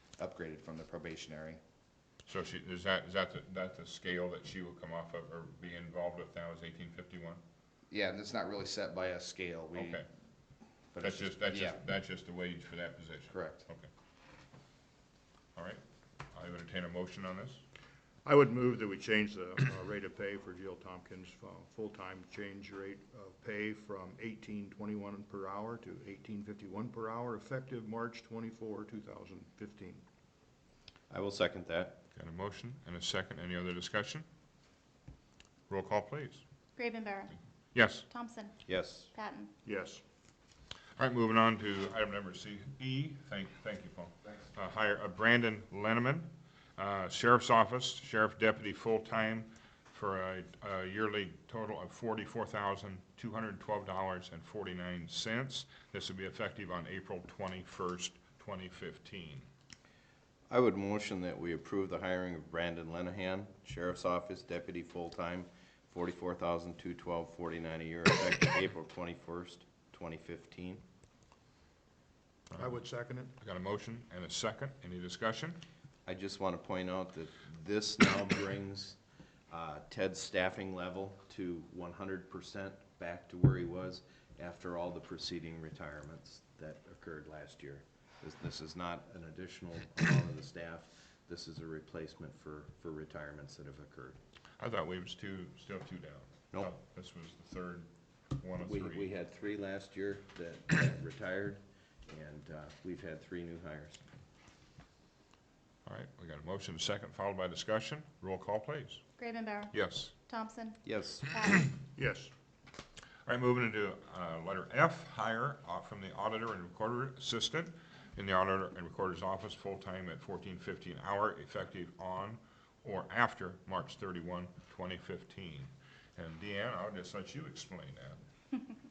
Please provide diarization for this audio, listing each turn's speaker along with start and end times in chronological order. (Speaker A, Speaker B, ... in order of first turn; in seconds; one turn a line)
Speaker A: 0.2-1.6
Speaker B: 2.2-7.4
Speaker A: 7.9-10.0
Speaker B: 9.7-10.1
Speaker A: 10.9-11.8
Speaker B: 11.0-13.9
Speaker A: 13.3-13.6
Speaker B: 15.6-15.8
Speaker B: 16.3-17.6
Speaker C: 18.2-30.0
Speaker D: 31.1-32.0
Speaker B: 32.1-34.2
Speaker B: 35.7-36.4
Speaker E: 36.8-39.5
Speaker B: 37.7-38.0
Speaker D: 38.7-39.1
Speaker C: 39.6-40.0
Speaker B: 41.0-59.5
Speaker D: 60.5-70.8
Speaker C: 72.6-73.3
Speaker B: 73.4-75.6
Speaker D: 76.0-79.0
Speaker D: 79.5-94.2
Speaker B: 94.6-99.1
Speaker D: 98.6-104.0
Speaker B: 105.8-109.0
Speaker E: 109.2-111.8
Speaker B: 109.7-110.1
Speaker D: 110.8-111.2
Speaker C: 112.0-112.3
Speaker B: 113.2-128.2